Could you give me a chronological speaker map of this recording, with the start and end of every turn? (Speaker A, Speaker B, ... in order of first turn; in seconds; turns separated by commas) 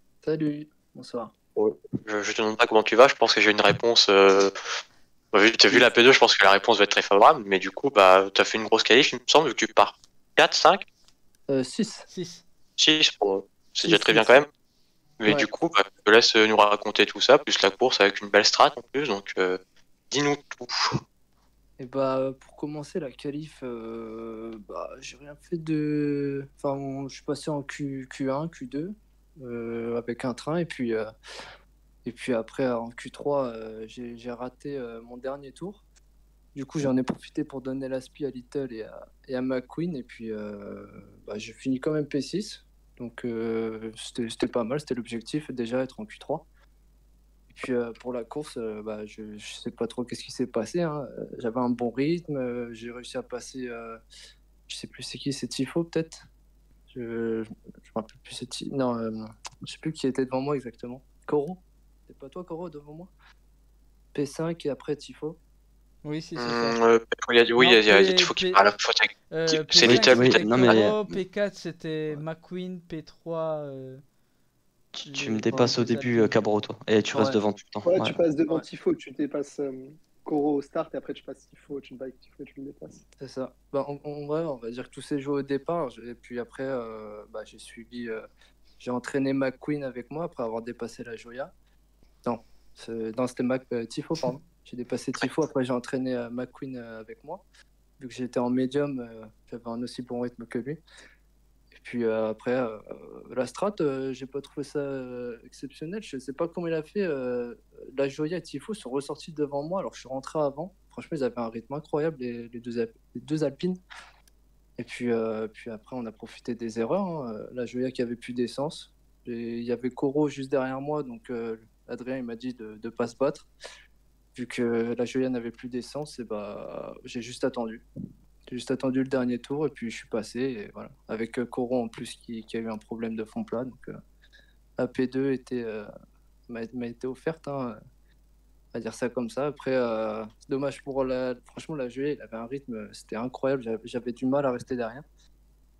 Speaker A: 0.2-1.3, Speaker B: 1.6-4.5, Speaker B: 5.3-10.9, Speaker A: 11.5-12.1, Speaker C: 12.1-12.4, Speaker B: 12.8-14.5, Speaker A: 13.8-14.3, Speaker B: 15.2-19.6, Speaker B: 20.1-21.0, Speaker A: 21.8-31.1, Speaker A: 32.0-35.8, Speaker A: 36.5-46.5, Speaker A: 47.5-54.0, Speaker A: 54.7-56.2, Speaker A: 56.9-63.1, Speaker A: 64.1-65.4, Speaker C: 66.0-66.8, Speaker B: 66.4-70.9, Speaker C: 67.6-68.7, Speaker C: 69.3-74.0, Speaker D: 69.9-71.0, Speaker D: 74.9-78.2, Speaker C: 75.1-76.3, Speaker A: 77.1-77.4, Speaker E: 77.8-83.0, Speaker A: 83.2-88.3, Speaker A: 88.8-91.5, Speaker A: 92.2-97.4, Speaker A: 98.0-100.8, Speaker A: 101.7-113.8, Speaker A: 114.8-123.5, Speaker A: 124.3-127.8, Speaker A: 128.5-134.0, Speaker A: 134.8-135.9, Speaker A: 136.5-137.8, Speaker A: 138.7-145.1